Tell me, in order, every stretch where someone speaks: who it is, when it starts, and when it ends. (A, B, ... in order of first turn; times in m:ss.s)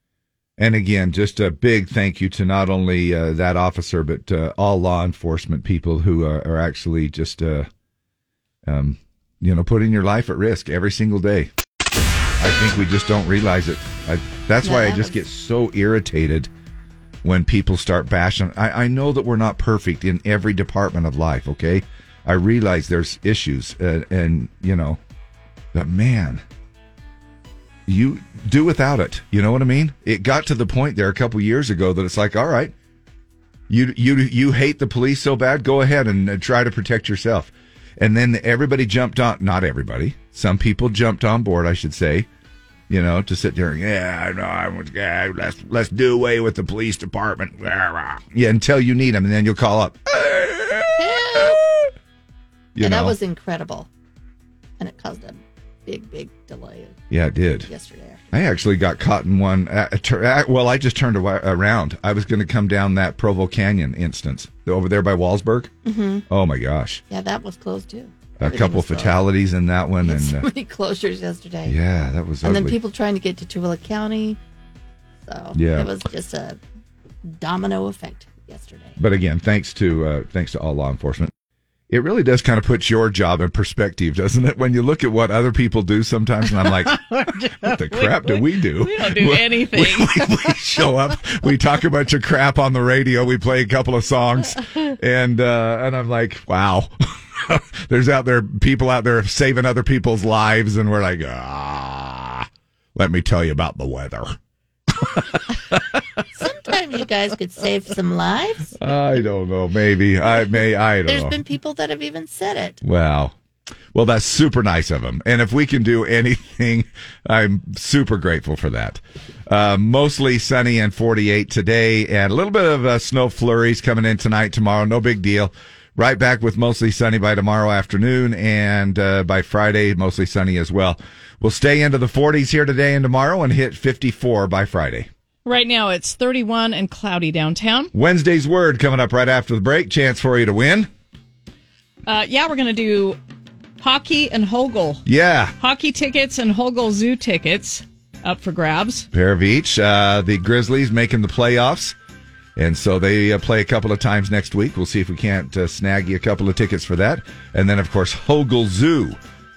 0:00.6-0:07.7 A
0:08.6-0:11.5 A
0:12.4-0:16.5 A
0:14.6-0:15.1 B
0:17.2-0:25.0 A
0:25.7-0:26.4 A
0:27.9-0:32.7 A
0:33.7-0:42.3 A
0:42.9-0:51.6 A
0:51.0-0:51.6 B
0:52.7-0:53.2 A
0:52.8-0:53.9 B
0:54.8-0:57.0 B
0:57.1-0:57.7 A
0:57.6-0:58.3 B
0:58.3-1:05.7 A
1:05.8-1:06.2 B
1:06.3-1:07.0 A
1:07.1-1:09.2 B
1:08.4-1:10.5 A
1:10.0-1:11.8 B
1:11.6-1:12.8 A
1:12.4-1:14.4 B
1:15.2-1:16.6 B
1:15.5-1:15.9 A
1:17.2-1:19.0 B
1:19.0-1:21.3 A
1:21.9-1:44.4 A
1:27.0-1:30.3 C
1:45.2-1:45.8 A
1:46.3-1:48.7 B
1:48.8-1:51.4 A
1:51.1-1:52.8 B
1:52.8-1:53.3 A
1:53.9-2:15.1 A
2:15.4-2:17.9 C
2:17.9-2:20.9 A
2:22.1-2:23.2 C
2:23.8-2:25.0 C
2:25.0-2:25.5 A
2:25.6-2:29.1 C
2:29.1-2:31.9 A
2:32.6-2:39.2 A